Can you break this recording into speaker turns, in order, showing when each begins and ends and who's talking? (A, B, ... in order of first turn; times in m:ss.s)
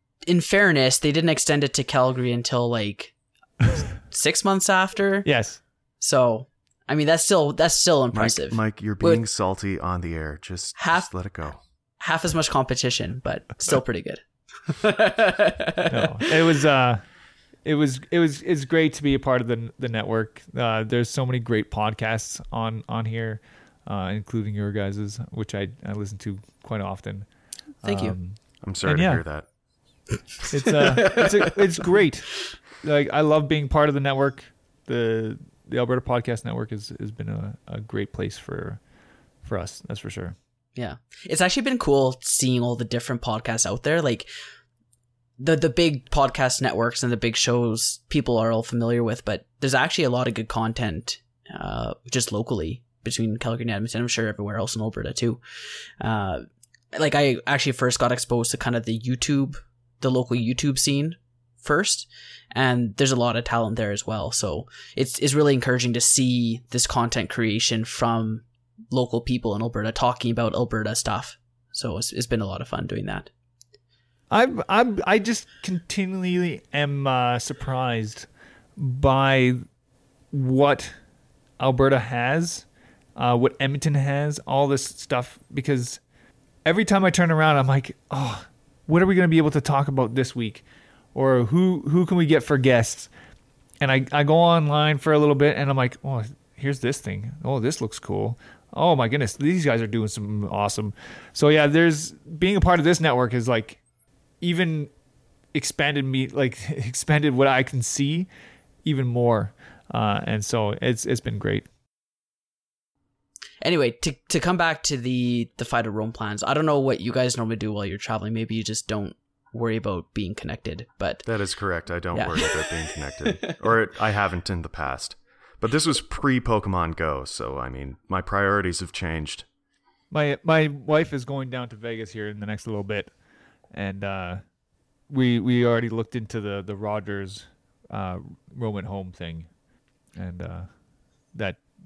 0:00.3-0:03.1 A
0:04.0-0:05.3 A
0:05.2-0:05.6 B
0:06.0-0:09.2 A
0:08.1-0:11.6 C
0:10.8-0:11.1 A
0:12.0-0:16.0 A
0:15.9-0:17.1 B
0:17.6-0:27.3 B
0:27.8-0:29.2 B
0:27.8-0:28.2 A
0:28.6-0:29.5 C
0:30.5-0:38.8 B
0:39.4-0:40.4 B
0:40.8-0:44.3 A
0:45.4-0:55.4 A
0:56.0-1:13.3 A
1:14.3-1:19.6 B
1:20.3-1:20.9 B
1:21.6-1:26.0 B
1:26.6-1:30.6 B
1:31.1-1:33.1 B
1:33.8-1:43.8 B
1:44.4-1:44.9 B
1:45.5-1:48.3 B
1:48.8-1:51.7 B
1:53.6-2:01.2 A
2:01.3-2:09.5 C
2:02.1-2:03.6 A
2:10.1-2:13.2 B
2:13.7-2:14.4 B
2:15.1-2:19.5 B
2:20.1-2:20.7 B
2:21.3-2:21.6 B